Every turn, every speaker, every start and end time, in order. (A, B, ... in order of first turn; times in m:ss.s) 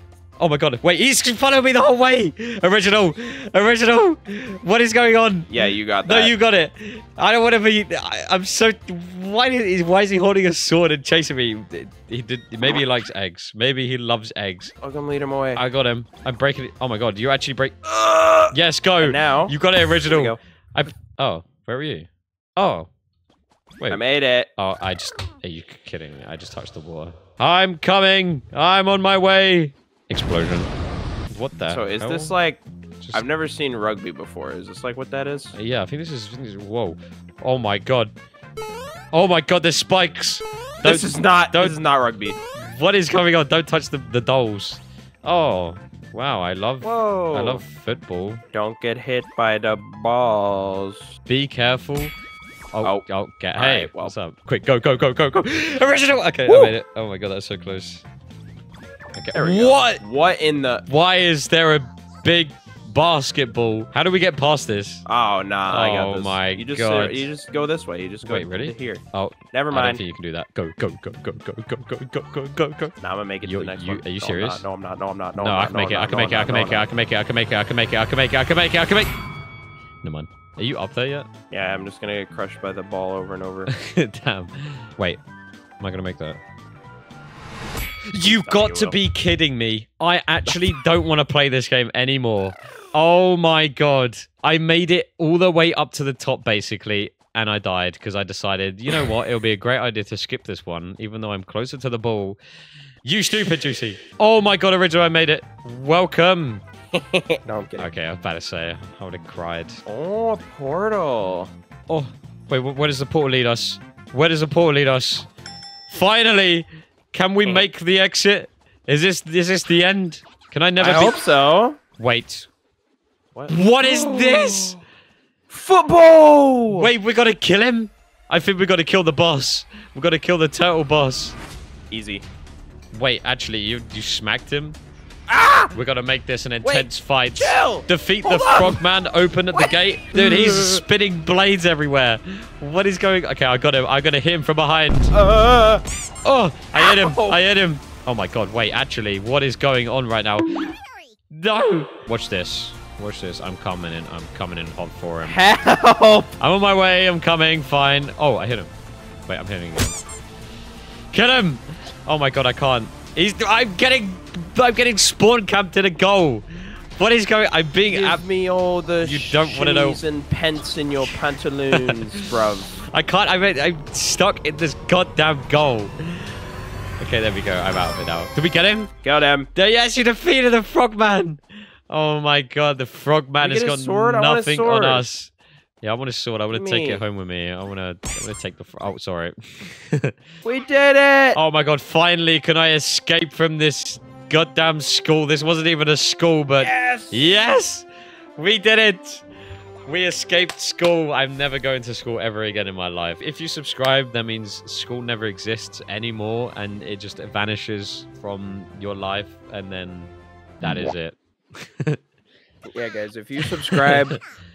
0:00.4-0:05.5 A
0:05.5-0:06.3 B
0:06.0-0:14.7 A
0:14.8-0:15.6 B
0:15.5-0:17.8 A
0:17.9-0:20.4 B
0:18.5-0:22.9 A
0:23.9-0:24.5 B
0:24.6-0:30.7 A
0:31.3-0:32.3 A
0:31.7-0:32.6 B
0:33.1-0:35.5 B
0:35.5-0:38.1 A
0:39.1-0:41.8 A
0:40.8-0:42.4 B
0:42.5-0:48.4 A
0:46.8-0:47.6 B
0:48.5-0:51.1 B
0:51.3-0:52.1 A
0:52.7-0:58.0 A
0:52.8-0:54.2 B
0:56.4-0:56.7 B
0:59.1-1:00.0 A
0:59.3-1:00.8 B
1:00.9-1:05.0 A
1:05.0-1:10.0 B
1:05.7-1:07.3 A
1:08.2-1:14.6 A
1:13.0-1:16.9 B
1:15.4-1:19.1 A
1:20.0-1:21.3 A
1:21.5-1:23.7 B
1:23.7-1:25.2 A
1:25.8-1:26.4 A
1:28.1-1:42.4 A
1:28.2-1:29.0 B
1:43.0-1:46.6 A
1:46.9-1:47.9 B
1:47.8-1:49.8 A
1:49.8-1:51.5 B
1:51.9-1:55.3 A
1:55.9-2:01.2 A
2:00.8-2:01.8 B
2:02.0-2:02.5 A
2:03.3-2:04.8 B
2:03.5-2:04.8 A
2:05.5-2:06.9 B
2:06.7-2:11.4 A
2:11.9-2:12.2 B
2:12.9-2:14.8 A
2:15.3-2:15.7 B
2:15.7-2:25.2 A
2:16.6-2:18.8 B
2:19.5-2:20.8 B
2:25.1-2:25.8 B
2:26.2-2:30.7 A
2:26.7-2:27.4 B
2:31.3-2:35.4 A
2:35.2-2:36.3 B
2:36.4-2:38.7 A
2:39.3-2:40.0 A
2:41.1-2:48.2 A
2:47.9-2:52.7 B
2:49.0-2:50.0 A
2:51.7-2:56.4 A
2:57.0-2:58.9 A
2:59.0-2:59.5 B
2:59.5-3:10.1 A
3:03.4-3:05.0 B
3:06.5-3:07.0 B
3:10.4-3:11.4 B
3:11.3-3:17.8 A
3:16.6-3:17.2 B
3:18.4-3:19.2 A
3:19.8-3:32.0 A
3:32.7-3:34.2 B